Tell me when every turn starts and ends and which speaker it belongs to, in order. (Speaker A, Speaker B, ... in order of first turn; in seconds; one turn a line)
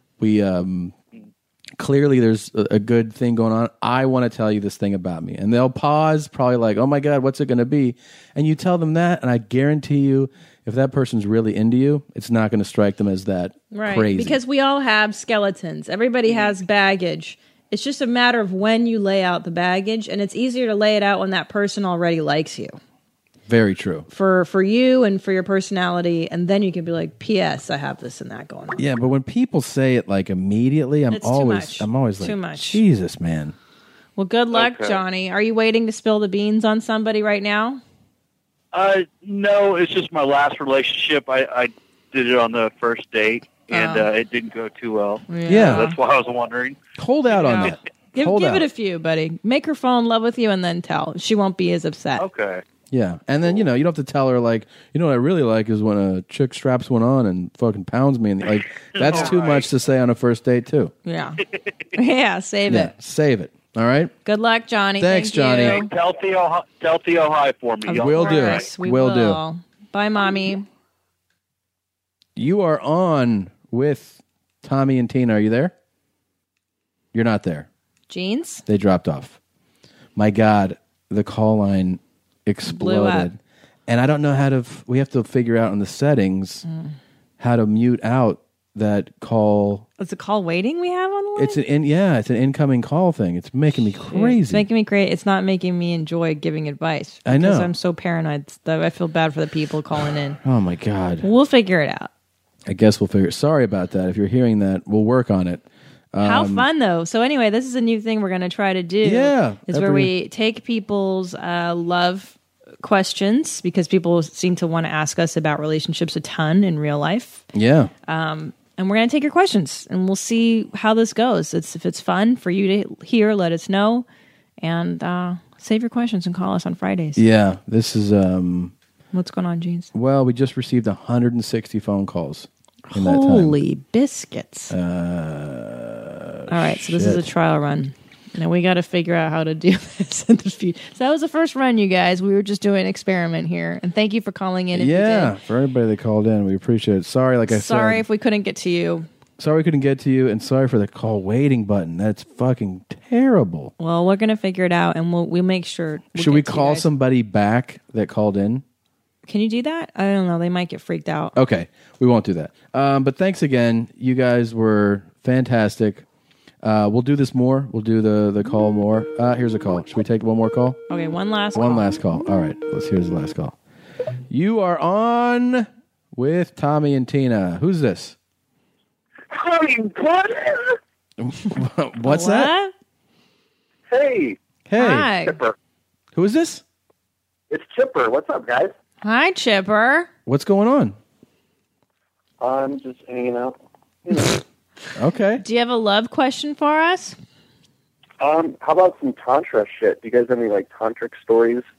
Speaker A: 0.2-0.9
Speaker A: 1.8-14.4
Speaker B: 13.7-22.8
Speaker A: 23.5-24.1
Speaker B: 24.1-28.8
Speaker A: 28.8-33.5
Speaker B: 31.1-32.8
Speaker B: 34.2-37.8
Speaker C: 34.5-35.0
Speaker C: 38.7-46.8
Speaker B: 43.7-44.1
Speaker B: 45.3-46.0
Speaker A: 45.5-45.9
Speaker A: 47.0-48.6
Speaker B: 47.3-52.2
Speaker C: 52.2-52.6
Speaker A: 52.9-60.9
Speaker C: 59.0-59.7
Speaker B: 61.0-61.4
Speaker B: 61.9-62.9
Speaker A: 62.7-64.1
Speaker B: 64.2-65.9
Speaker A: 65.0-65.8
Speaker C: 65.6-68.7
Speaker B: 67.8-70.7
Speaker A: 68.0-69.4
Speaker A: 72.3-75.7
Speaker A: 77.1-77.7
Speaker B: 78.1-78.6
Speaker A: 78.7-79.4
Speaker A: 80.2-86.6
Speaker B: 82.7-83.3
Speaker B: 86.7-86.9
Speaker A: 87.4-89.8
Speaker B: 90.0-91.6
Speaker A: 91.3-94.6
Speaker B: 94.1-100.4
Speaker A: 97.2-97.7
Speaker A: 100.4-101.3
Speaker B: 101.2-102.1
Speaker A: 102.7-106.7
Speaker B: 106.2-117.5
Speaker A: 109.0-110.1
Speaker A: 117.5-117.9
Speaker B: 118.1-124.0
Speaker B: 124.6-127.2
Speaker A: 127.2-128.7
Speaker B: 129.1-129.9
Speaker A: 129.9-133.6
Speaker B: 132.9-134.7
Speaker A: 134.7-137.3
Speaker B: 136.5-145.3
Speaker A: 144.7-148.0
Speaker B: 147.5-149.1
Speaker A: 149.4-153.7
Speaker B: 153.8-156.9
Speaker A: 156.1-158.6
Speaker B: 159.3-161.3
Speaker A: 161.3-166.0
Speaker A: 166.6-170.8
Speaker B: 170.9-171.8
Speaker A: 171.5-173.6
Speaker A: 174.3-178.2
Speaker D: 179.3-180.8
Speaker A: 181.2-182.5
Speaker B: 182.1-182.7
Speaker D: 183.9-184.4
Speaker A: 184.7-185.1
Speaker B: 184.8-185.4
Speaker D: 185.1-185.5
Speaker A: 186.1-186.6
Speaker D: 187.5-188.7
Speaker B: 189.0-190.1
Speaker A: 190.2-190.9
Speaker D: 192.4-193.5
Speaker D: 194.1-194.3
Speaker A: 194.9-195.4
Speaker B: 195.4-197.2
Speaker D: 198.2-201.6